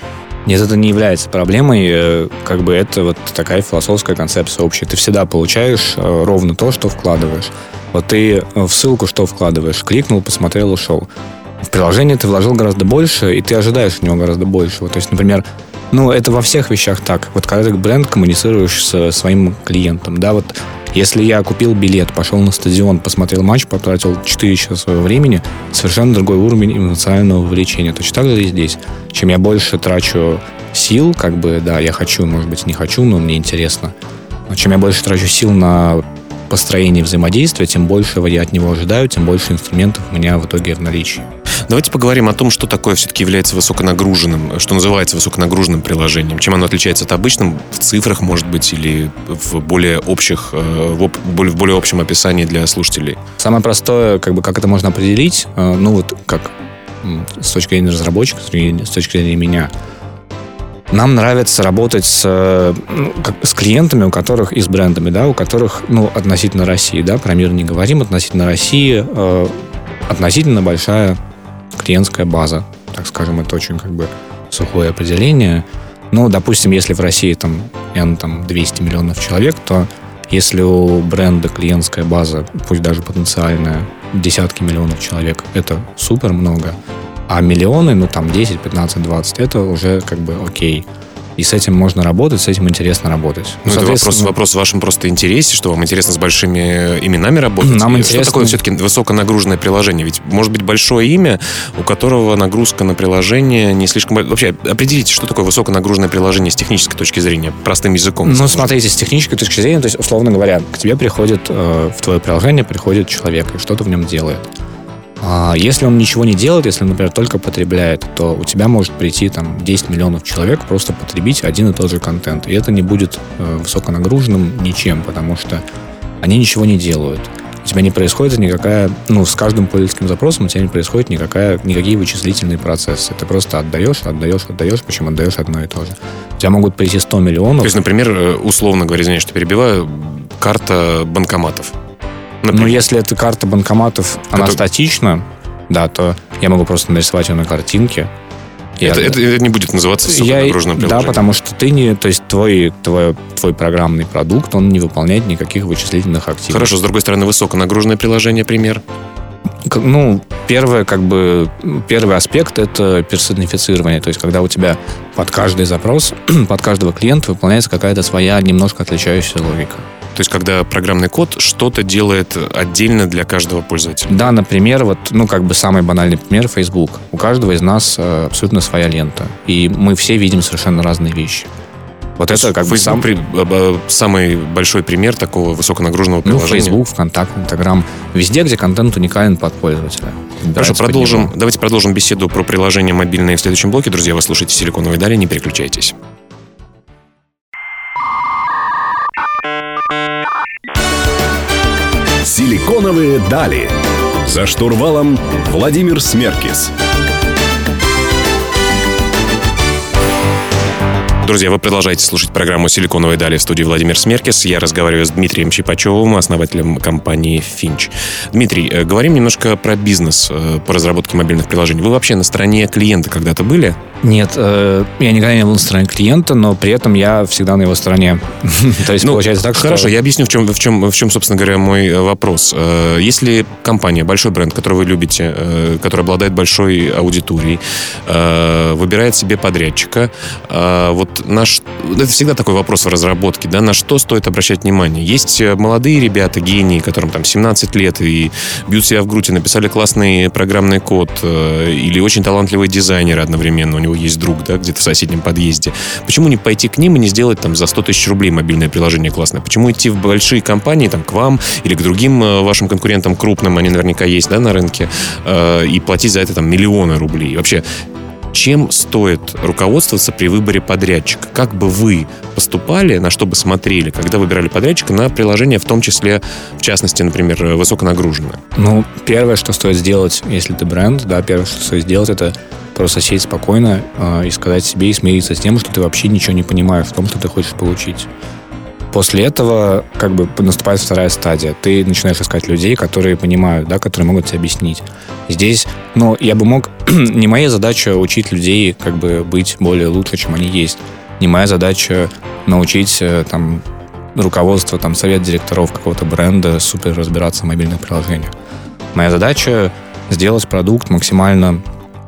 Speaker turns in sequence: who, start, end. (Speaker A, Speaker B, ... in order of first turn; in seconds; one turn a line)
Speaker A: 0.5-11.1
Speaker A: 11.6-33.9
Speaker A: 34.5-41.2
Speaker B: 41.7-53.2
Speaker A: 53.4-59.7
Speaker A: 60.9-69.5
Speaker A: 70.1-71.2
Speaker A: 71.7-86.8
Speaker A: 87.3-94.3
Speaker B: 93.7-108.7
Speaker A: 97.6-98.6
Speaker A: 108.2-114.4
Speaker A: 115.2-125.6
Speaker A: 126.2-137.8
Speaker B: 137.6-141.7
Speaker B: 142.4-142.8
Speaker A: 142.5-148.1
Speaker A: 148.8-149.2
Speaker B: 148.8-151.3
Speaker A: 150.0-156.7
Speaker B: 156.5-158.8
Speaker A: 159.7-169.9
Speaker B: 170.1-174.3
Speaker A: 174.1-181.5
Speaker A: 182.2-183.1
Speaker B: 182.3-186.8
Speaker A: 186.2-191.3
Speaker B: 190.6-195.9
Speaker C: 202.2-206.7
Speaker B: 211.2-223.8
Speaker A: 224.0-229.9
Speaker B: 229.0-267.6
Speaker B: 268.3-278.4
Speaker A: 278.6-288.1
Speaker A: 288.9-303.6
Speaker A: 304.1-308.3
Speaker A: 308.9-311.6